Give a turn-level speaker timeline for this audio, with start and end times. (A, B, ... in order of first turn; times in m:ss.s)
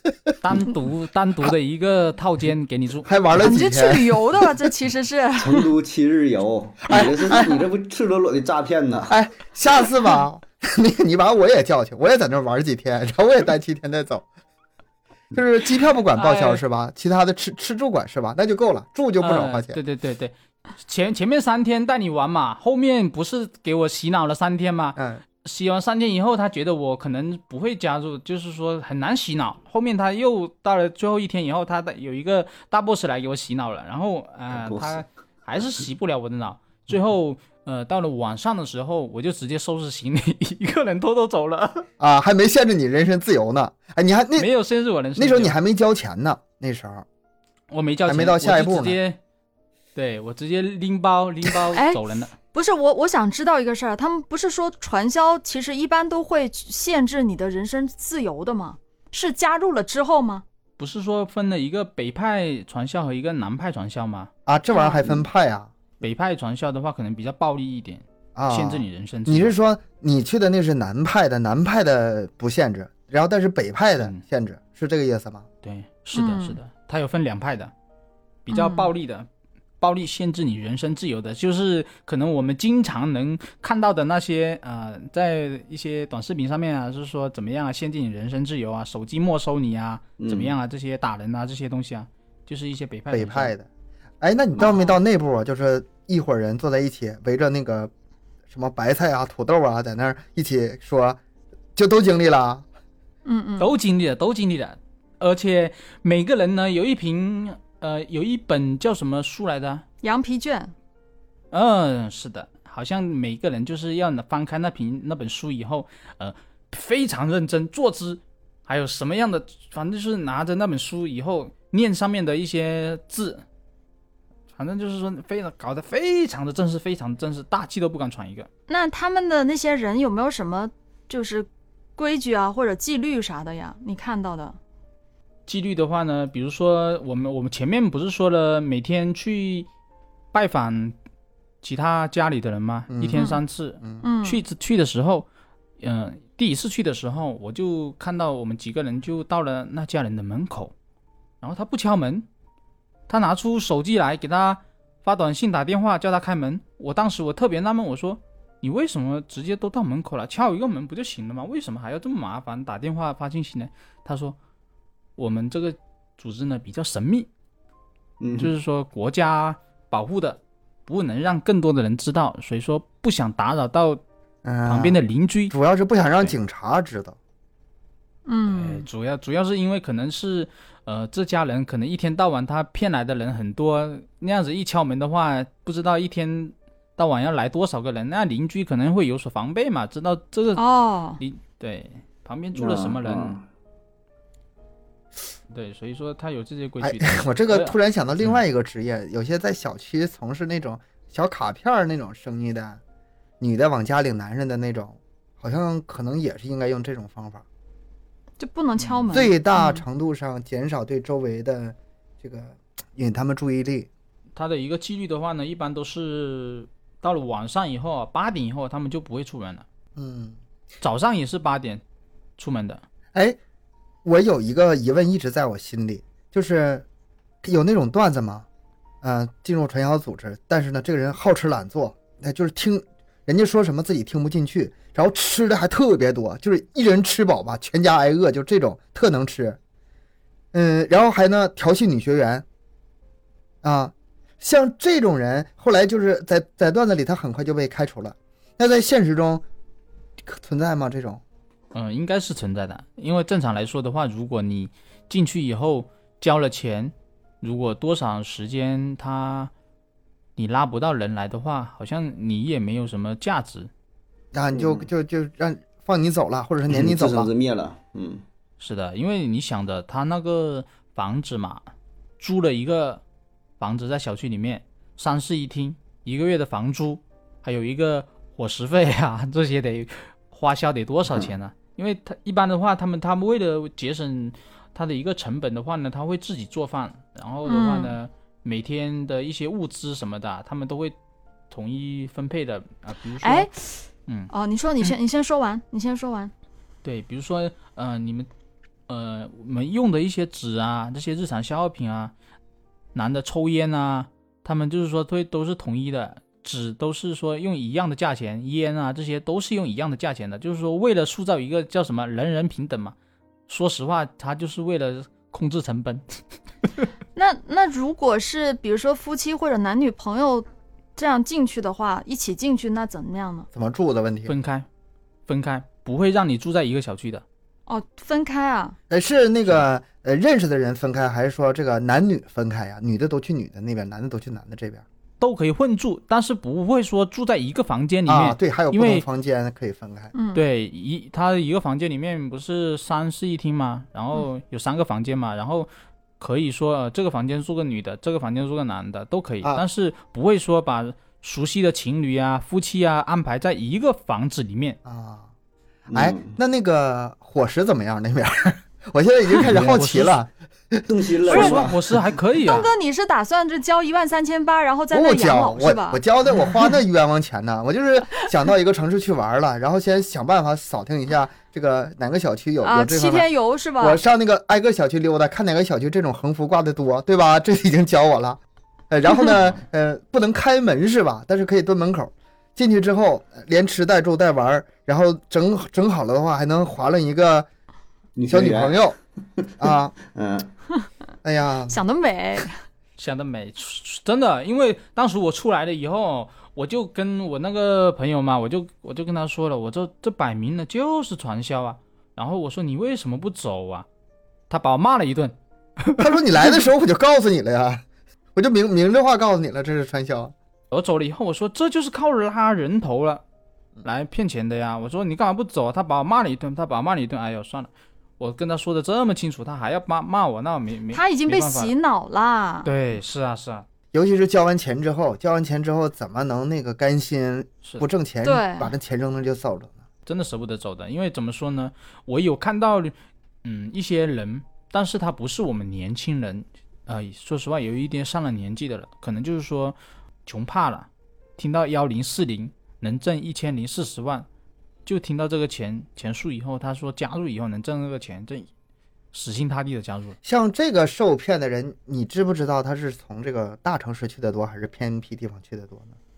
0:00.4-0:03.1 A
0:03.0-0:04.7 B
0:03.4-0:05.7 C
0:05.4-0:09.1 D
0:06.9-0:07.6 B
0:09.1-0:14.3 B
0:15.3-0:19.8 B
0:16.1-0:16.6 A
0:19.2-0:41.9 A
0:25.0-0:25.2 B
0:34.5-0:35.0 D
0:42.0-0:44.5 B
0:44.4-0:45.6 A
0:45.2-0:47.1 B
0:47.7-0:49.2 A
0:48.1-0:49.0 B
0:50.0-0:52.3 A
0:51.7-1:00.4 C
1:00.8-1:04.3 A
1:04.5-1:05.7 B
1:04.7-1:05.1 C
1:06.0-1:09.6 A
1:08.4-1:15.5 B
1:15.6-1:17.7 A
1:16.2-1:16.6 C
1:18.5-1:19.3 A
1:18.5-1:18.9 C
1:19.8-1:33.5 A
1:30.2-1:30.5 D
1:33.1-1:33.7 B
1:34.2-1:37.9 B
1:34.6-1:34.9 C
1:38.5-1:41.2 B
1:41.8-1:42.7 B
1:43.2-1:43.7 C
1:43.6-1:49.8 A
1:50.0-1:50.8 C
1:51.5-2:03.4 A
2:04.5-2:08.5 A
2:08.7-2:14.6 C
2:15.5-2:19.7 A
2:20.3-2:21.0 A
2:21.6-2:25.3 A
2:22.9-2:23.3 B
2:23.1-2:23.4 C
2:24.0-2:24.4 C
2:25.8-2:30.7 A
2:31.4-2:32.3 A
2:33.1-2:44.4 A
2:45.2-2:47.3 A
2:48.2-2:48.5 D
2:48.4-2:54.0 A
2:54.4-2:55.0 B
2:54.6-2:55.5 A
2:55.5-2:57.2 B
2:58.3-2:58.8 C
2:58.5-3:10.6 A
3:10.6-3:11.2 C
3:11.2-3:13.4 A
3:12.6-3:13.4 D
3:15.5-3:18.4 A
3:16.8-3:22.8 B
3:23.4-3:27.4 B
3:28.4-3:29.8 C
3:28.9-3:29.3 A
3:29.1-3:33.9 B
3:34.4-3:39.7 A
3:40.0-3:40.4 B
3:40.8-3:41.8 A
3:42.4-3:42.8 A
3:44.0-3:46.9 B
3:47.4-3:48.5 B
3:49.0-3:59.6 B
4:00.5-4:02.4 B
4:03.6-4:09.4 B
4:10.2-4:11.2 B
4:11.7-4:19.5 A
4:20.4-4:23.7 A
4:24.3-4:27.3 B
4:24.5-4:24.9 D
4:26.7-4:28.2 D
4:28.6-4:31.7 A
4:32.2-4:33.0 A
4:33.6-4:51.0 A
4:47.5-4:47.9 C
4:51.5-4:53.5 A
4:53.2-4:56.3 C
4:56.8-4:58.3 A
4:58.9-5:02.1 A
5:02.9-5:13.0 A
5:13.5-5:16.2 A
5:17.2-5:23.5 C
5:23.5-5:24.3 B
5:24.3-5:24.7 A
5:25.3-5:27.2 A
5:27.7-5:28.8 C
5:28.9-5:34.8 B
5:35.2-5:39.1 A
5:38.1-5:40.1 B
5:40.1-5:40.4 C
5:40.3-5:54.8 A
5:54.8-5:55.3 B
5:55.9-5:56.4 D
5:55.9-6:00.8 B
5:59.4-6:00.2 A
6:00.9-6:02.0 D
6:01.3-6:02.7 A
6:01.3-6:01.6 C
6:02.4-6:06.0 C
6:04.9-6:13.3 B
6:12.6-6:14.0 C
6:13.8-6:27.5 B
6:28.2-6:28.8 D
6:28.3-6:29.0 B
6:29.4-6:30.5 D
6:29.6-6:30.0 B
6:31.2-6:31.8 B
6:31.7-6:32.6 C
6:33.0-6:43.9 A
6:44.5-6:46.0 A
6:46.0-6:50.3 B
6:50.7-6:53.2 A
6:53.8-7:01.7 A
7:00.9-7:02.7 C
7:02.6-7:03.7 A
7:03.9-7:09.8 B
7:08.2-7:08.8 C
7:10.1-7:24.3 A
7:24.9-7:28.5 A
7:29.1-7:30.2 A
7:30.2-7:36.0 B